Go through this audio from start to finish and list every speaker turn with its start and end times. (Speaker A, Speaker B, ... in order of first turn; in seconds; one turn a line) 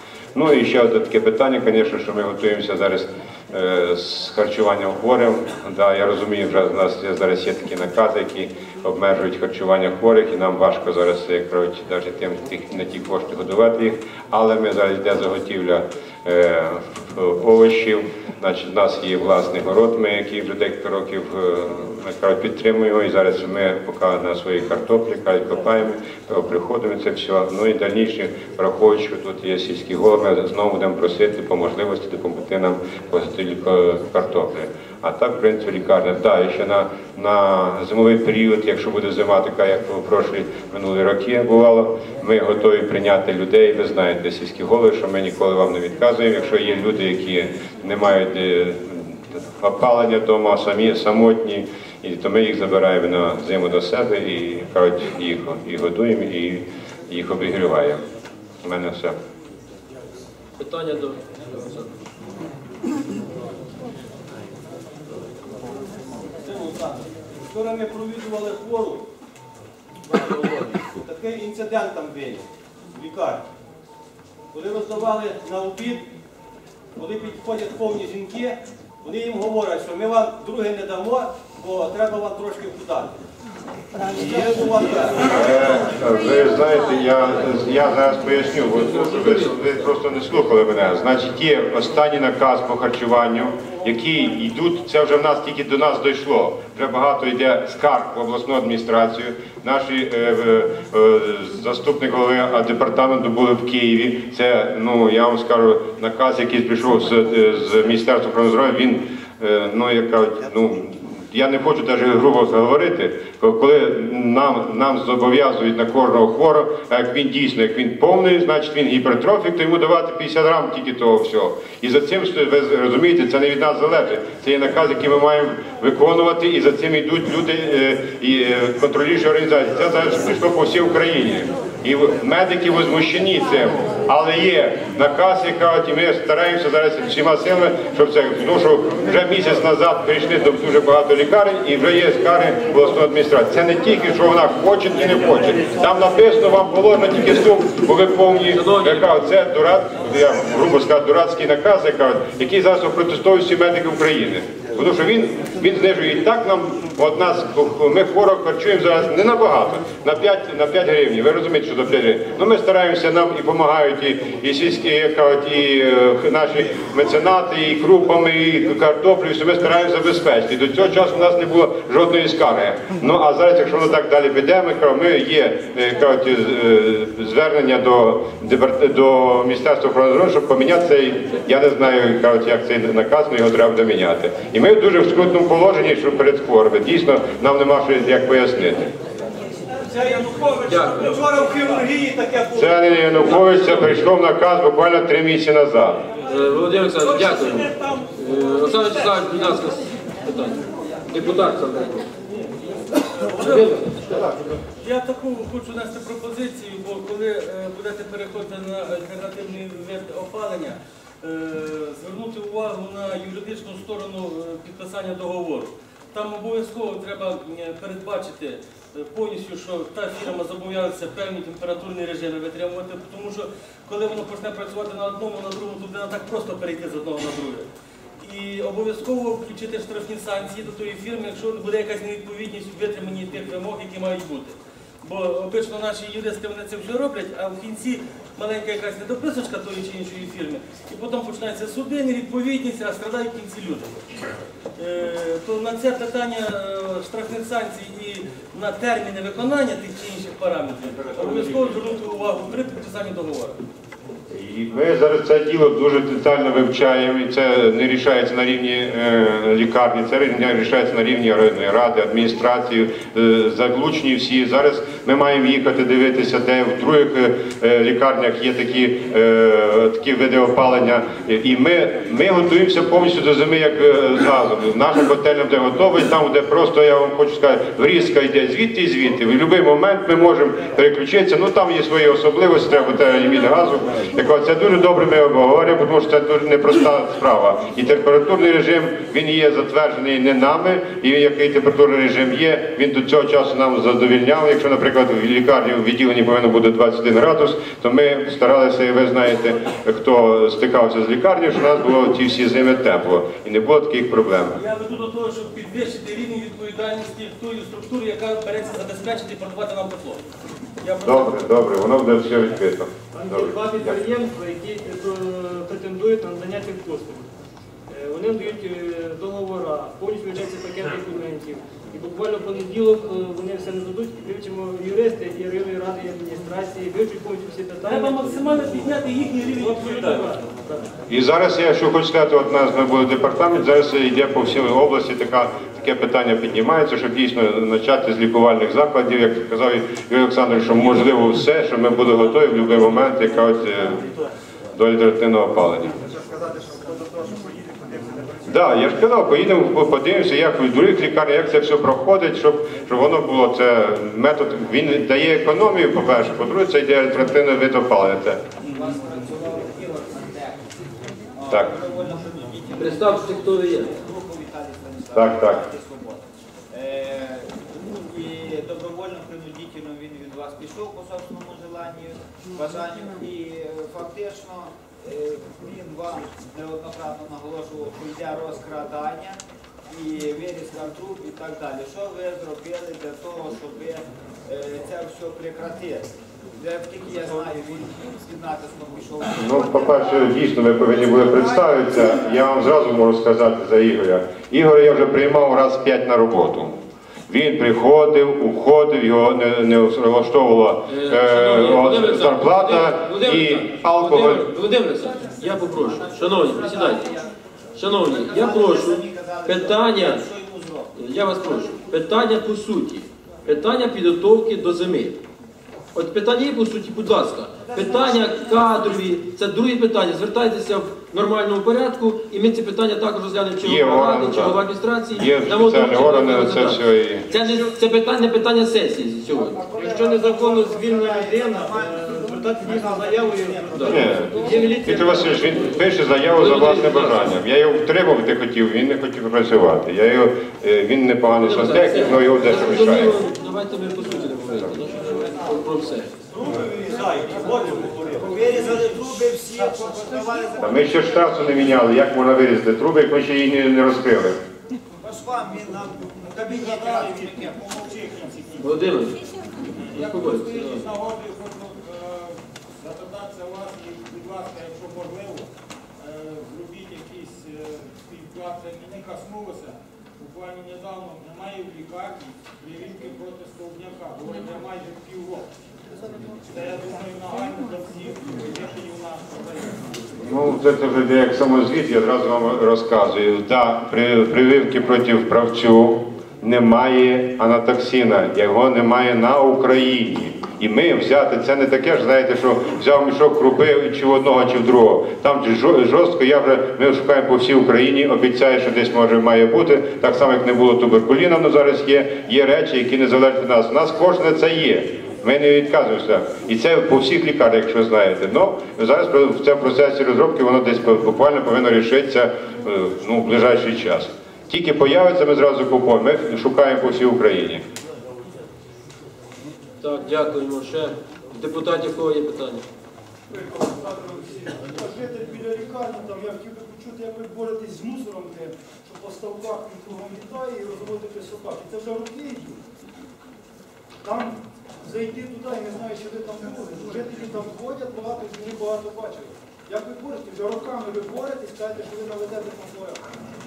Speaker A: 0.3-58.0
Speaker A: 58.6-59.1
Speaker B: 60.6-61.9
Speaker C: 66.5-69.0
Speaker C: 70.1-72.4
Speaker C: 73.0-73.4
Speaker C: 74.6-76.1
Speaker C: 77.0-78.6
Speaker C: 79.1-83.1
Speaker C: 84.2-85.4
Speaker A: 85.3-188.9
Speaker B: 88.7-89.9
Speaker B: 148.5-149.1
Speaker C: 189.9-192.9
Speaker B: 190.6-191.2
Speaker A: 192.5-196.0
Speaker B: 193.2-193.9
Speaker B: 196.2-202.1
Speaker B: 203.2-204.1
Speaker D: 203.3-203.8
Speaker D: 204.8-227.7
Speaker D: 228.2-244.0
Speaker D: 244.8-253.6
Speaker A: 254.3-304.6
Speaker D: 304.5-310.2
Speaker D: 310.8-311.3
Speaker A: 311.0-314.0
Speaker E: 313.1-317.3
Speaker E: 317.9-329.0
Speaker D: 327.8-330.3
Speaker E: 329.6-330.9
Speaker A: 331.1-344.1
Speaker A: 344.7-346.0
Speaker F: 346.8-347.5
Speaker A: 348.4-358.4
Speaker G: 358.6-360.7
Speaker G: 361.3-392.3
Speaker B: 362.8-363.9
Speaker A: 365.1-365.6
Speaker A: 389.4-396.8
Speaker A: 397.3-404.5
Speaker B: 400.9-407.1
Speaker G: 405.7-407.3
Speaker B: 407.7-410.2
Speaker G: 407.9-410.9
Speaker B: 410.9-415.2
Speaker G: 411.5-411.9
Speaker B: 415.9-429.6
Speaker G: 417.6-418.8
Speaker A: 423.6-427.3
Speaker G: 429.3-435.1
Speaker E: 429.7-435.1
Speaker B: 433.7-435.7
Speaker A: 433.9-443.2
Speaker B: 436.3-437.3
Speaker B: 441.4-446.1
Speaker C: 446.3-448.1
Speaker G: 448.2-451.2
Speaker H: 448.3-448.8
Speaker A: 450.6-454.4
Speaker G: 455.0-457.9
Speaker H: 456.3-459.1
Speaker B: 458.6-459.2
Speaker H: 459.7-475.5
Speaker B: 459.8-460.9
Speaker H: 476.4-480.1
Speaker A: 480.2-517.6
Speaker B: 519.8-522.6
Speaker F: 523.3-532.6
Speaker F: 534.0-543.0